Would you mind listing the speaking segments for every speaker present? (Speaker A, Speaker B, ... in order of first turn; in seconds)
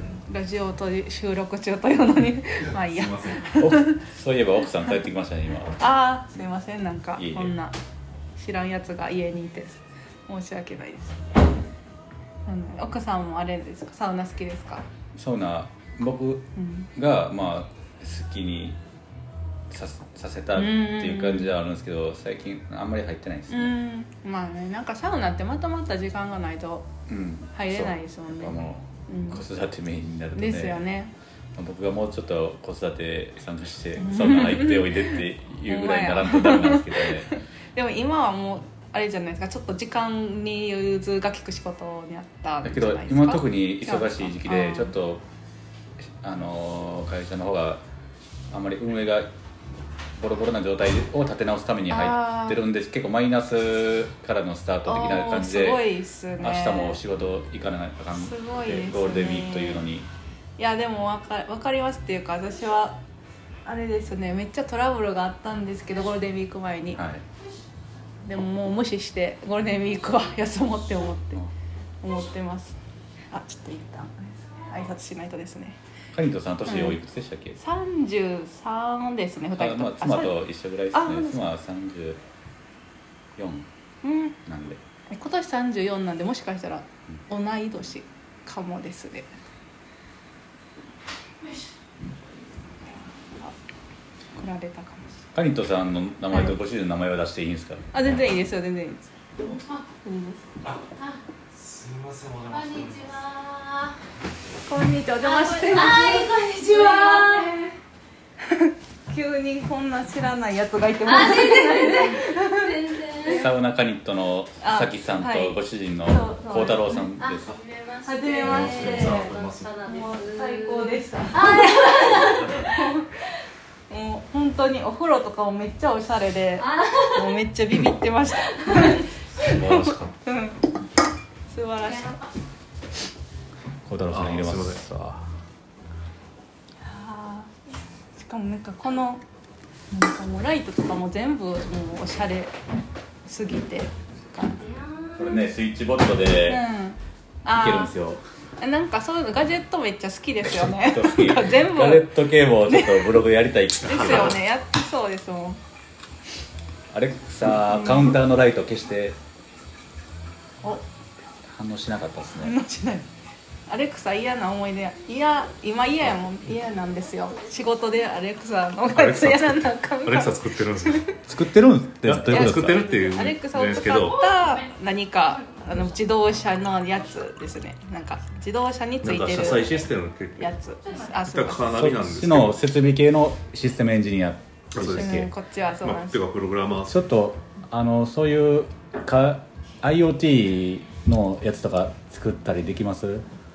Speaker A: 0.2-4.0, 5.8-7.7, 8.3-11.2, 12.4-14.8, 16.6-16.9, 20.6-21.6, 23.5-26.9, 27.5-29.4, 30.3-31.1, 34.0-44.9, 51.9-52.6, 54.8-57.0, 58.1-59.9, 60.6-63.0, 63.6-67.0, 68.2-71.5, 72.0-72.8, 73.3-75.8, 76.7-77.0, 77.6-80.4, 80.9-81.5, 84.0-84.4, 85.1-89.3, 94.3-95.2, 96.3-96.5, 97.9-100.5, 104.6-107.8, 108.4-113.5, 114.6-117.1, 118.0-119.3, 119.8-123.0, 123.9-130.6, 131.5-132.2, 136.8-137.5, 138.1-139.2, 139.9-142.5, 143.2-144.7, 146.4-147.9, 148.6-153.3, 153.8-155.6, 157.7-158.2, 162.4-163.1, 163.7-171.1, 172.2-181.7, 184.9-186.2
Speaker B: 2.6-3.6, 101.5-103.2, 118.4-119.7, 129.3-130.1, 134.1-134.8, 153.8-154.4, 168.9-171.1, 172.0-174.2, 179.0-180.5, 181.3-182.6, 184.7-185.3, 185.8-187.0
Speaker C: 3.5-5.8, 7.1-7.5, 15.1-18.8, 19.7-23.7, 27.1-30.8, 31.6-37.4, 42.6-45.2, 46.2-47.8, 48.5-49.3, 50.2-55.9, 56.4-60.1, 66.9-67.2, 76.1-77.6, 79.6-82.2, 83.4-83.7, 84.4-84.8, 95.3-97.9, 113.2-117.6, 133.8-135.3, 145.2-146.6, 147.4-148.2, 150.4-154.4, 156.9-159.2, 161.5-162.6, 171.3-172.9, 181.7-185.3, 186.8-193.2
Speaker D: 102.5-104.0, 105.2-107.5, 111.0-113.4, 117.2-123.0, 126.6-127.4, 128.4-129.1, 131.8-132.3, 144.6-145.3, 173.9-174.7